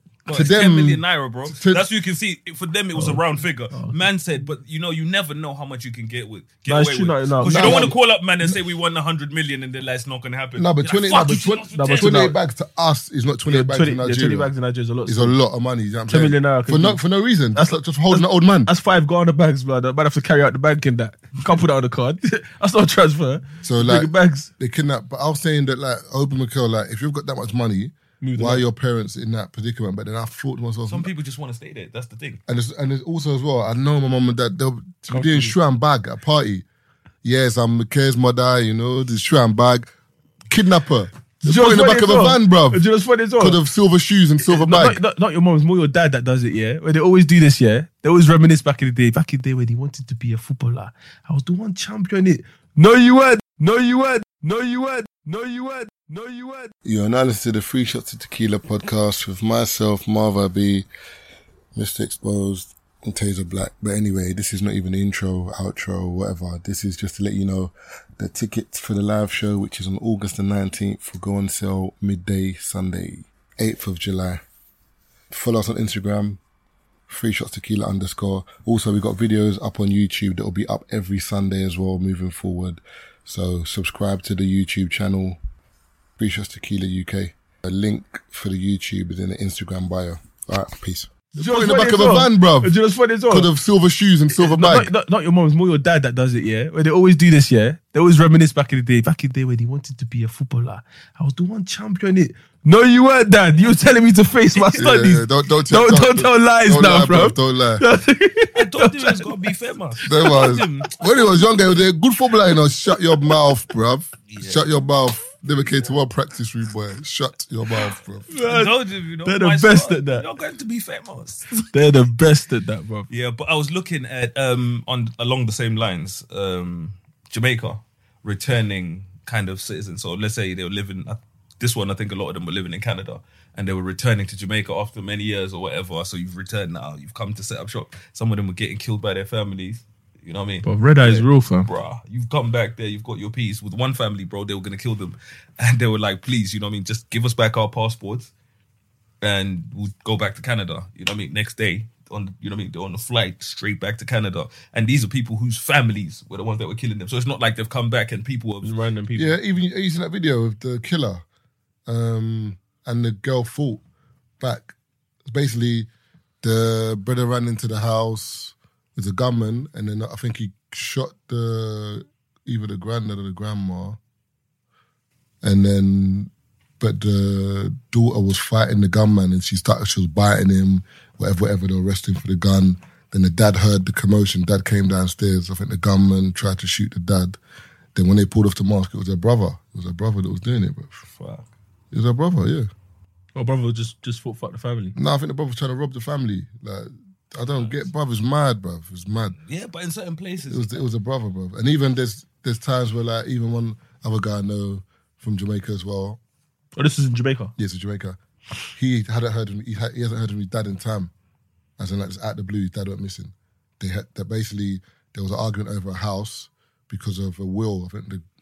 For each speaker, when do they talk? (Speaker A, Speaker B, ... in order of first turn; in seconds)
Speaker A: 0.2-12.3, 30.9-32.4, 108.5-110.9, 114.3-114.6, 118.4-121.7, 123.1-148.3, 149.2-158.7, 191.2-191.5, 199.5-200.8
Speaker B: 0.3-1.8, 7.4-8.0, 10.6-14.5, 15.1-18.7, 23.6-31.1, 32.5-36.6, 37.2-39.9, 40.5-42.9, 43.4-45.0, 56.8-60.9, 61.7-74.4, 75.3-76.4, 77.1-85.4, 86.2-94.9, 104.7-107.8, 110.0-118.3, 159.2-161.2, 161.9-163.8, 164.4-164.7, 165.2-165.9, 166.4-174.0, 175.4-187.4, 187.9-191.0, 191.9-192.7, 194.9-199.4, 200.5-206.2, 207.6-208.2, 208.8-211.1, 211.8-218.2
Speaker C: 3.0-4.0, 6.7-7.9, 11.7-12.3, 13.5-15.4, 16.1-17.0, 17.5-24.5, 28.2-28.6, 35.1-35.5, 41.4-43.6, 44.5-56.7, 91.3-93.5, 94.3-109.5, 118.3-118.7, 119.2-120.2, 121.7-123.1, 140.6-141.7, 158.6-159.3, 193.3-194.9, 206.8-207.5